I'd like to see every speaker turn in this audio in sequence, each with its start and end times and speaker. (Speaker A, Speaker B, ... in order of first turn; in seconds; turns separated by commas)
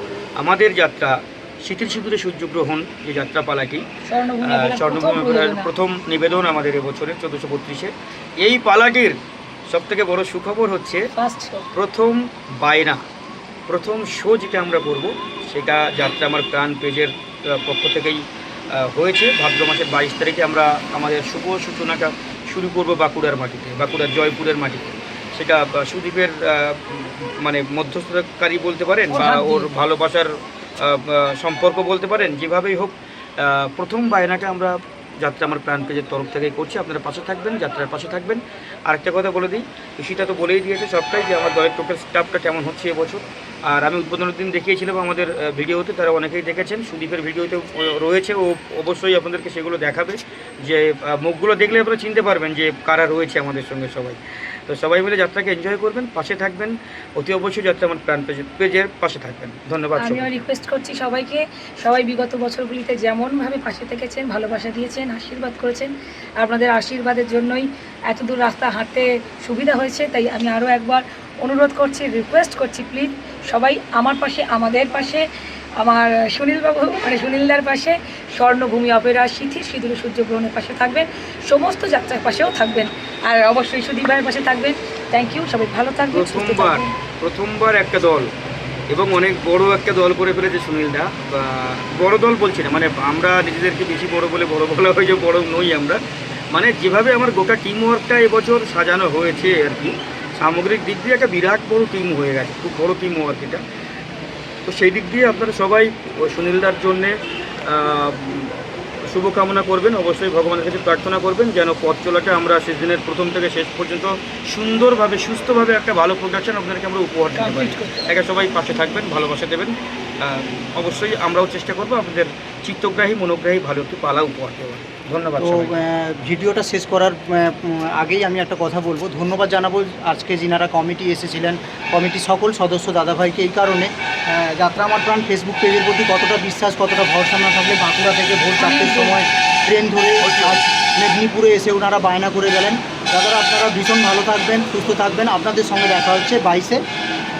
Speaker A: 0.4-3.9, Speaker B: 4.1-5.7, Speaker A: 4.4-9.2, Speaker A: 9.7-11.0, Speaker B: 11.1-11.7, Speaker A: 11.7-13.0, Speaker A: 13.7-18.2, Speaker A: 18.8-30.3, Speaker B: 29.1-29.7, Speaker A: 30.8-60.4, Speaker B: 60.0-75.3, Speaker B: 75.8-86.9, Speaker A: 86.1-88.3, Speaker A: 88.9-96.0, Speaker A: 96.5-103.6, Speaker A: 104.7-107.1, Speaker A: 107.7-108.5, Speaker A: 109.1-125.7, Speaker B: 117.3-118.0, Speaker C: 125.4-146.8, Speaker B: 138.5-139.2, Speaker A: 140.2-140.7